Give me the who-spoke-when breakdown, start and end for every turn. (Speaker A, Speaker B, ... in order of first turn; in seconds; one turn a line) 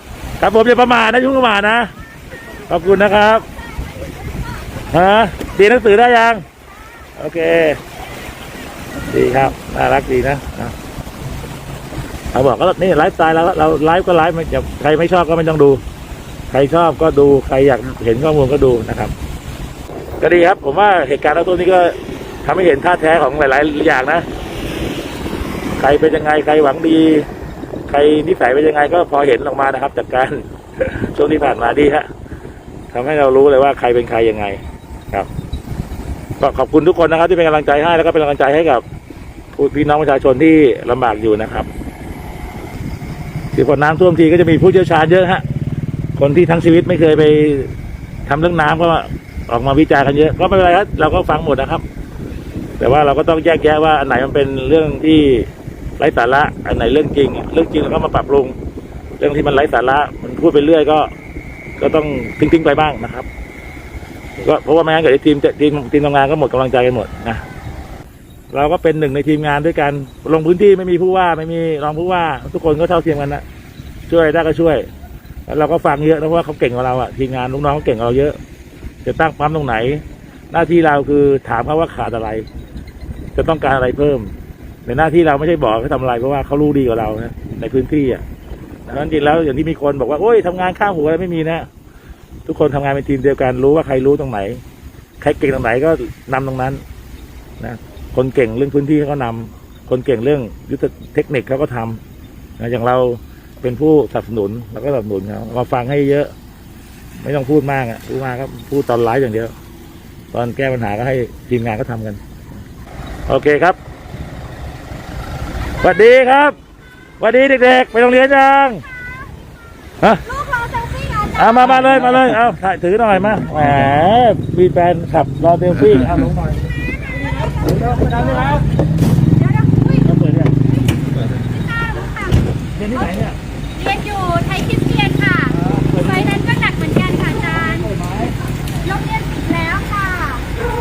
Speaker A: 0.4-1.9
Speaker A: 2.7-3.5
Speaker A: 4.9-6.4
Speaker A: 7.2-7.8
Speaker A: 9.0-10.7
Speaker A: 12.3-15.8
Speaker A: 16.5-19.1
Speaker A: 20.2-24.2
Speaker A: 25.8-27.3
Speaker A: 27.9-32.1
Speaker A: 32.9-35.3
Speaker A: 36.4-38.8
Speaker A: 39.5-41.7
Speaker A: 43.5-45.4
Speaker A: 46.1-47.7
Speaker A: 48.2-51.8
Speaker A: 52.8-58.5
Speaker A: 59.2-61.1
Speaker A: 61.8-63.3
Speaker A: 64.4-67.4
Speaker A: 68.5-73.4
Speaker A: 74.1-74.9
Speaker A: 75.5-78.4
Speaker A: 79.0-82.5
Speaker A: 83.3-84.3
Speaker A: 84.8-88.2
Speaker A: 88.9-91.7
Speaker A: 92.5-94.6
Speaker A: 95.2-96.8
Speaker A: 97.6-102.0
Speaker A: 102.6-106.3
Speaker A: 107.2-109.5
Speaker A: 110.3-112.2
Speaker A: 113.3-113.8
Speaker A: 115.8-116.6
Speaker A: 117.2-118.8
Speaker A: 120.0-120.4
Speaker B: 120.4-121.3
Speaker A: 121.3-126.5
Speaker A: 127.6-128.6
Speaker B: 129.4-130.1
Speaker A: 130.0-130.5
Speaker B: 131.4-132.3
Speaker A: 132.8-133.3
Speaker B: 133.8-137.9
Speaker A: 137.8-138.1
Speaker B: 138.8-140.5